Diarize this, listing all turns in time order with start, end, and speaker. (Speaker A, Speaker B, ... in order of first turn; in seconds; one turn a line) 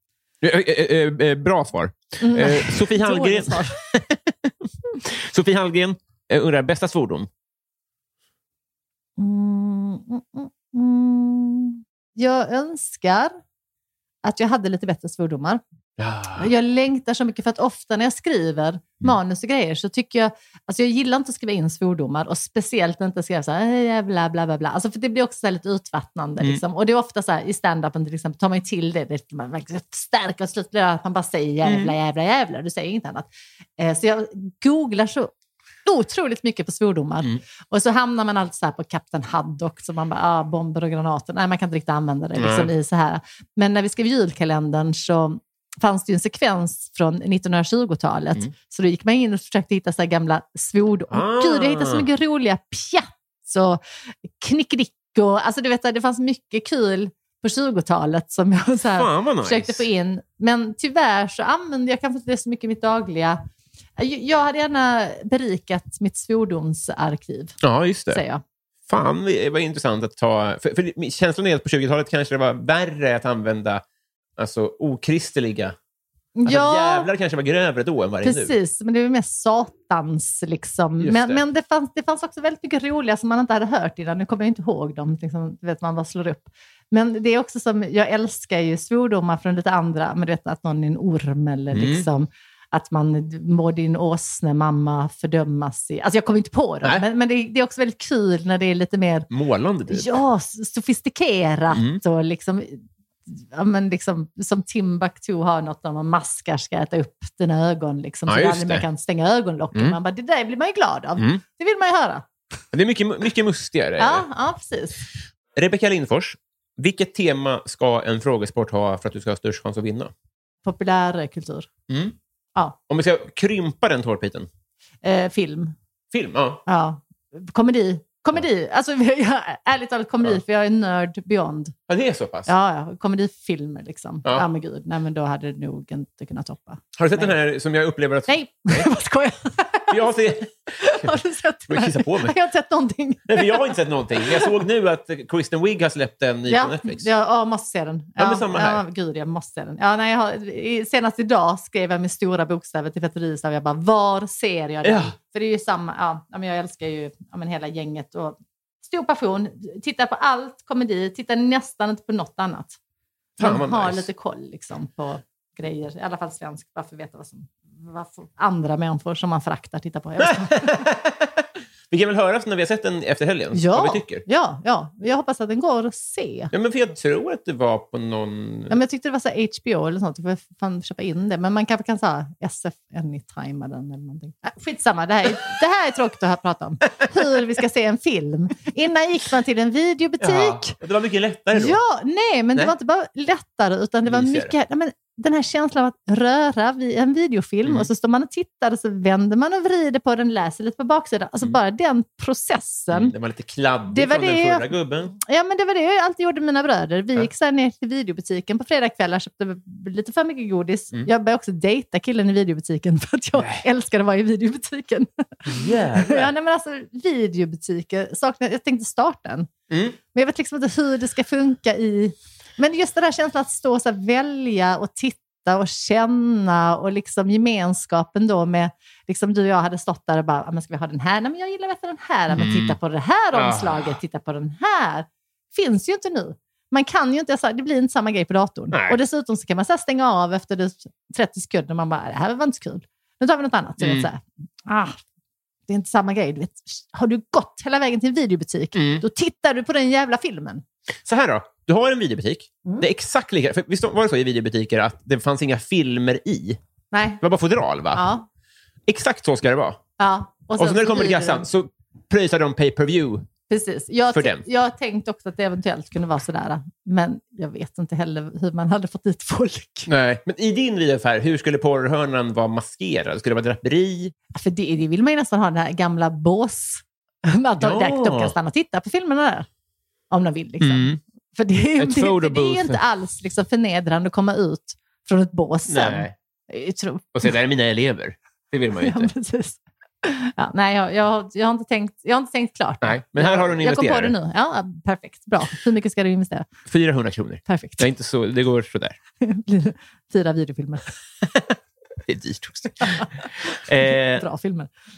Speaker A: 0.4-7.3
Speaker B: 2.2-3.8
Speaker B: 9.2-13.4
Speaker B: 14.2-15.6
Speaker A: 16.0-16.5
Speaker B: 16.4-35.3
Speaker A: 31.6-31.9
Speaker B: 35.9-53.8
Speaker A: 42.4-42.7
Speaker A: 51.1-52.1
Speaker B: 54.4-63.4
Speaker A: 59.0-59.9
Speaker B: 64.0-68.4
Speaker A: 67.6-68.2
Speaker A: 68.9-73.8
Speaker A: 74.4-75.8
Speaker B: 76.4-77.1
Speaker A: 76.5-78.5
Speaker B: 78.2-99.3
Speaker A: 81.0-81.4
Speaker A: 91.7-92.1
Speaker A: 99.3-100.2
Speaker B: 99.9-112.3
Speaker A: 101.7-102.0
Speaker A: 108.3-108.9
Speaker A: 111.2-111.4
Speaker A: 112.7-114.3
Speaker B: 114.0-115.0
Speaker A: 115.5-120.1
Speaker B: 120.6-121.7
Speaker A: 121.9-122.2
Speaker A: 122.9-124.5
Speaker B: 125.0-125.8
Speaker A: 126.1-126.6
Speaker B: 126.7-131.7
Speaker A: 131.9-132.5
Speaker B: 132.5-137.4
Speaker A: 136.9-138.9
Speaker B: 138.3-140.2
Speaker A: 139.9-142.3
Speaker B: 140.8-144.6
Speaker A: 143.3-147.1
Speaker B: 146.5-162.8
Speaker A: 148.2-148.8
Speaker A: 154.8-155.2
Speaker A: 163.4-164.1
Speaker B: 163.4-170.8
Speaker A: 170.2-174.2
Speaker B: 173.5-176.5
Speaker A: 176.5-178.8
Speaker B: 178.7-190.8
Speaker A: 190.2-191.8
Speaker B: 191.5-203.1
Speaker A: 194.1-194.5
Speaker A: 197.6-197.9
Speaker A: 202.9-205.1
Speaker B: 203.9-219.5
Speaker A: 213.4-213.6
Speaker A: 215.5-216.3
Speaker A: 219.7-220.0
Speaker B: 220.1-245.0
Speaker A: 232.3-232.8
Speaker A: 233.3-234.0
Speaker A: 238.7-239.0
Speaker A: 243.8-244.1
Speaker B: 245.7-250.6
Speaker A: 248.7-249.0
Speaker A: 251.1-256.6
Speaker B: 256.9-257.2
Speaker A: 257.2-258.1
Speaker B: 257.9-258.3
Speaker A: 258.9-259.8
Speaker B: 260.0-261.5
Speaker A: 260.6-263.3
Speaker B: 263.5-269.9
Speaker A: 264.1-264.5
Speaker A: 269.9-274.1
Speaker B: 274.3-279.5
Speaker A: 277.6-278.4
Speaker B: 280.1-287.3
Speaker A: 280.6-281.0
Speaker A: 281.8-282.8
Speaker A: 285.7-286.1
Speaker A: 287.1-289.1
Speaker B: 288.8-296.5
Speaker A: 292.8-294.1
Speaker A: 296.7-299.0
Speaker B: 297.5-297.9
Speaker B: 299.2-301.0
Speaker A: 302.1-304.2
Speaker B: 304.0-304.7